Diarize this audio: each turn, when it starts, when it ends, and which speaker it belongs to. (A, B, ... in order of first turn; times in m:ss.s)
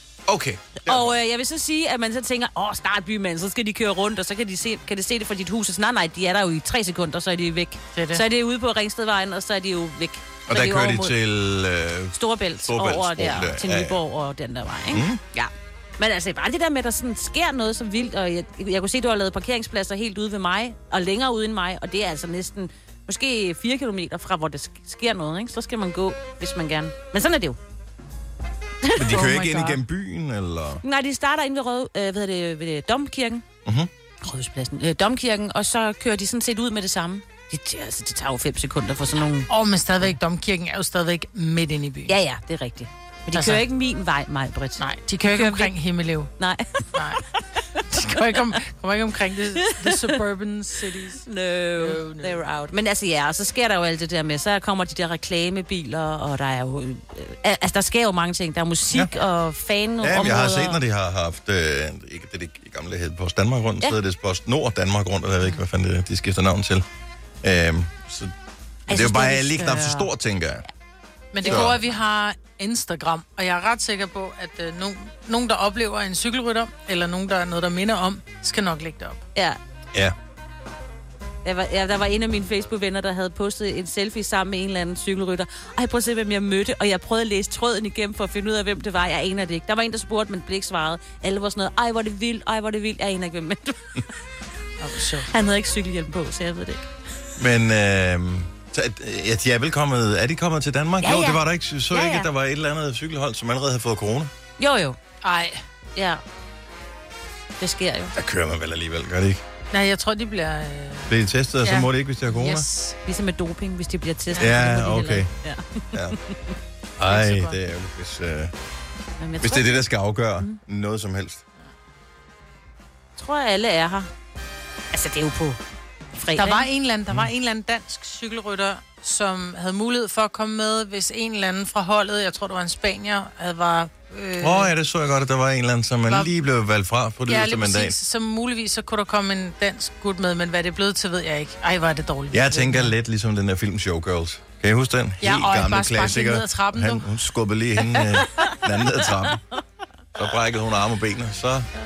0:00.3-0:01.1 A
0:00.8-0:11.1 B
0:07.9-0:08.2 C
0:10.5-0:14.0 A
0:12.1-0:27.6 B
0:14.9-0:15.2 A
0:28.8-0:29.3 B
0:28.9-0:30.8 A
0:29.0-0:29.8 C
0:30.8-0:33.4 B
0:33.6-0:33.9 A
0:34.2-0:39.5 B
0:39.5-0:42.1 C
0:42.1-0:45.7 B
0:43.3-0:43.6 C
0:44.8-0:46.3 C
0:46.4-0:47.4 B
0:46.9-0:47.2 C
0:47.9-0:51.2 C
0:48.0-0:48.5 B
0:49.6-0:50.2 B
0:51.2-1:00.8 B
0:51.8-0:52.7 C
1:00.0-1:06.8 A
1:07.4-1:08.3 A
1:08.9-1:10.1 B
1:08.9-1:10.6 A
1:11.3-1:19.2 C
1:11.4-1:11.7 B
1:11.4-1:11.8 A
1:21.4-1:34.1 B
1:34.8-1:35.3 C
1:35.2-1:36.8 B
1:37.4-1:44.3 A
1:41.0-1:42.3 B
1:44.6-1:45.0 B
1:45.2-1:45.6 C
1:46.0-1:46.2 B
1:47.6-1:48.1 B
1:48.1-1:49.4 A
1:49.7-1:53.0 C
1:51.1-1:52.6 A
1:53.0-1:56.3 B
1:54.4-1:55.3 A
1:57.0-1:58.5 A
1:57.1-1:57.6 C
1:59.2-1:59.8 B
1:59.4-2:01.4 A
2:03.2-2:04.1 B
2:04.9-2:05.6 B
2:06.2-2:06.7 B
2:06.4-2:14.7 C
2:14.4-2:18.0 A
2:17.2-2:22.9 C
2:22.3-2:29.4 A
2:25.2-2:27.1 C
2:27.9-2:29.3 B
2:30.1-2:31.7 A